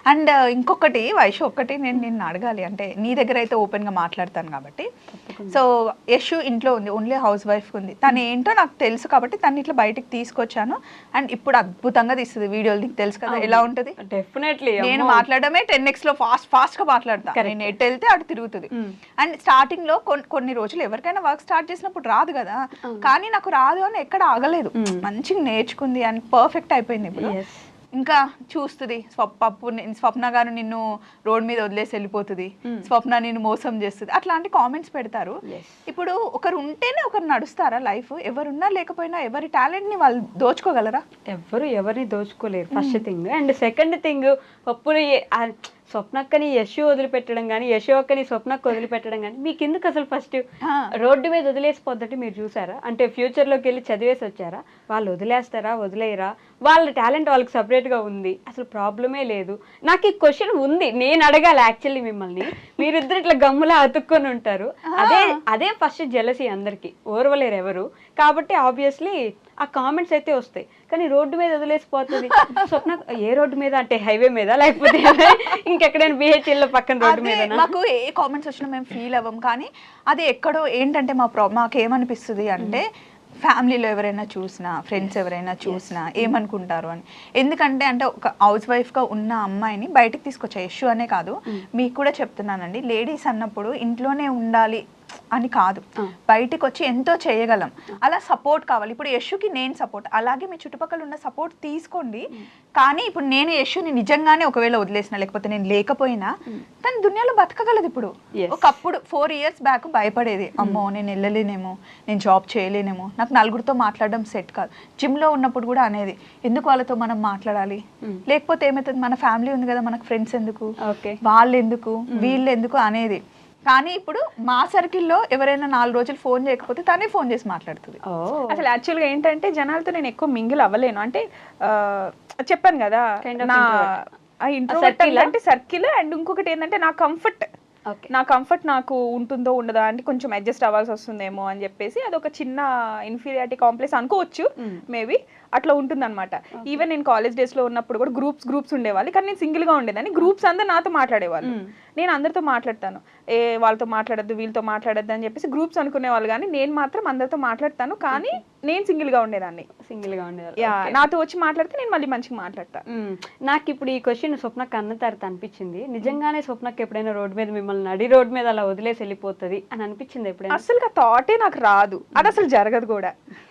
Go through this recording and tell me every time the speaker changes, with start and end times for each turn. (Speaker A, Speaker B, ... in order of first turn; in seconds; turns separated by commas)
Speaker A: 0.1-4.9, Speaker B: 5.1-5.6, Speaker A: 5.5-13.9, Speaker B: 13.3-15.2, Speaker A: 14.8-27.4, Speaker B: 17.3-17.8, Speaker B: 24.8-25.1, Speaker B: 27.2-27.7, Speaker A: 28.0-41.0, Speaker B: 35.5-35.8, Speaker B: 41.3-50.4, Speaker A: 42.7-43.1, Speaker A: 50.6-50.9, Speaker B: 51.0-77.7, Speaker A: 64.9-65.4, Speaker A: 77.0-82.8, Speaker A: 83.4-94.8, Speaker B: 85.7-86.3, Speaker A: 95.3-102.2, Speaker A: 102.8-120.7, Speaker B: 108.4-108.7, Speaker B: 120.8-121.2, Speaker A: 121.2-128.0, Speaker B: 122.1-122.4, Speaker B: 128.1-128.6, Speaker C: 128.5-133.9, Speaker B: 133.2-133.9, Speaker C: 134.5-137.5, Speaker B: 134.7-135.3, Speaker C: 138.1-159.7, Speaker B: 146.6-146.8, Speaker B: 151.4-151.7, Speaker B: 158.1-158.4, Speaker B: 159.8-161.1, Speaker C: 160.6-162.8, Speaker B: 162.9-170.6, Speaker C: 170.5-173.1